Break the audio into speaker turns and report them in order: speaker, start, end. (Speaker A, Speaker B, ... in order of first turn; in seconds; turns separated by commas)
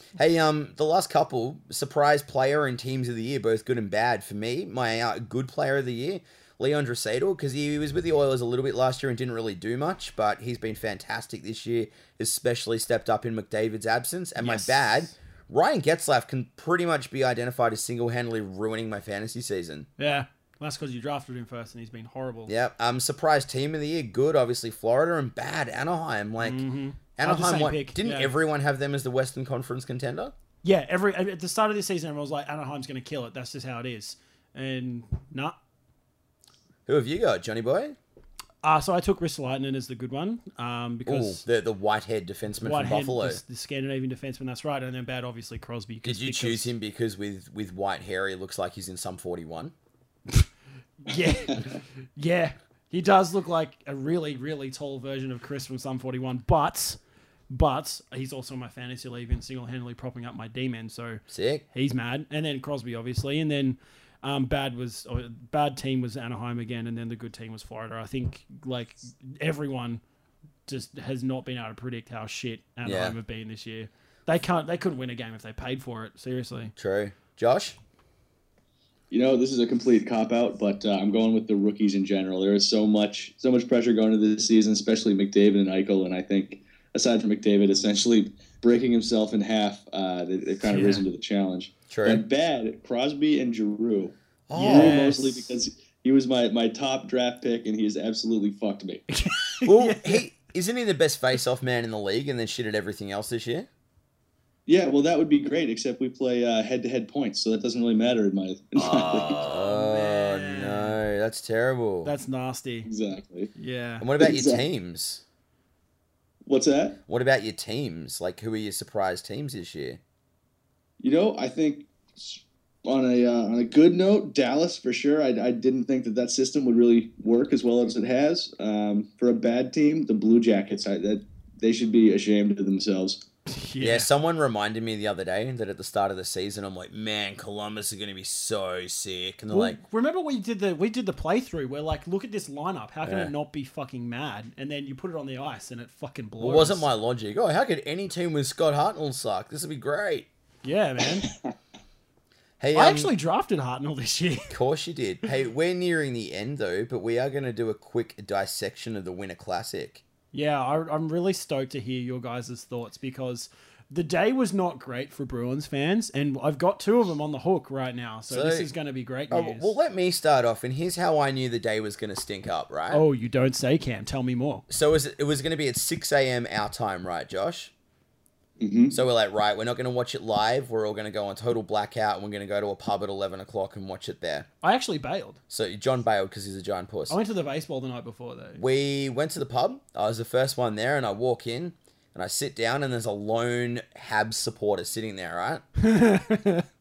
Speaker A: 0.2-19.9, Speaker B: 14.4-14.8, Speaker B: 20.0-22.5, Speaker A: 22.5-26.6, Speaker B: 26.4-28.3, Speaker A: 27.2-30.3, Speaker B: 30.6-35.6, Speaker A: 36.9-38.0, Speaker B: 38.6-41.4, Speaker A: 41.1-43.4, Speaker B: 42.6-46.7, Speaker A: 46.0-49.7, Speaker B: 51.0-57.0, Speaker B: 57.5-70.0, Speaker A: 61.3-61.6, Speaker B: 70.7-76.7, Speaker A: 72.8-73.2, Speaker A: 76.8-77.8, Speaker C: 79.1-99.1, Speaker B: 90.7-91.0, Speaker A: 91.9-92.2, Speaker A: 94.5-95.0, Speaker B: 94.5-95.5, Speaker B: 99.1-100.2, Speaker A: 99.6-103.7, Speaker C: 104.7-109.5, Speaker A: 108.8-112.1, Speaker B: 109.4-111.0, Speaker B: 112.0-112.9, Speaker C: 112.9-113.5, Speaker B: 113.6-114.1, Speaker A: 114.0-115.2, Speaker C: 114.2-114.6, Speaker C: 116.5-117.0, Speaker A: 117.1-120.0, Speaker C: 121.0-133.2, Speaker B: 133.5-134.1, Speaker A: 133.8-139.8, Speaker B: 139.5-146.9, Speaker A: 143.0-143.3, Speaker A: 146.4-150.3, Speaker B: 150.6-151.3, Speaker A: 152.6-153.1, Speaker B: 152.7-154.6, Speaker A: 154.5-160.0, Speaker B: 160.3-169.7, Speaker A: 168.3-168.7, Speaker A: 169.3-173.0, Speaker B: 172.9-174.7, Speaker A: 174.7-177.7, Speaker C: 178.6-179.0, Speaker A: 178.9-184.5, Speaker B: 184.6-185.4, Speaker A: 185.5-187.2, Speaker B: 187.1-188.6, Speaker A: 188.6-195.6, Speaker B: 195.8-196.7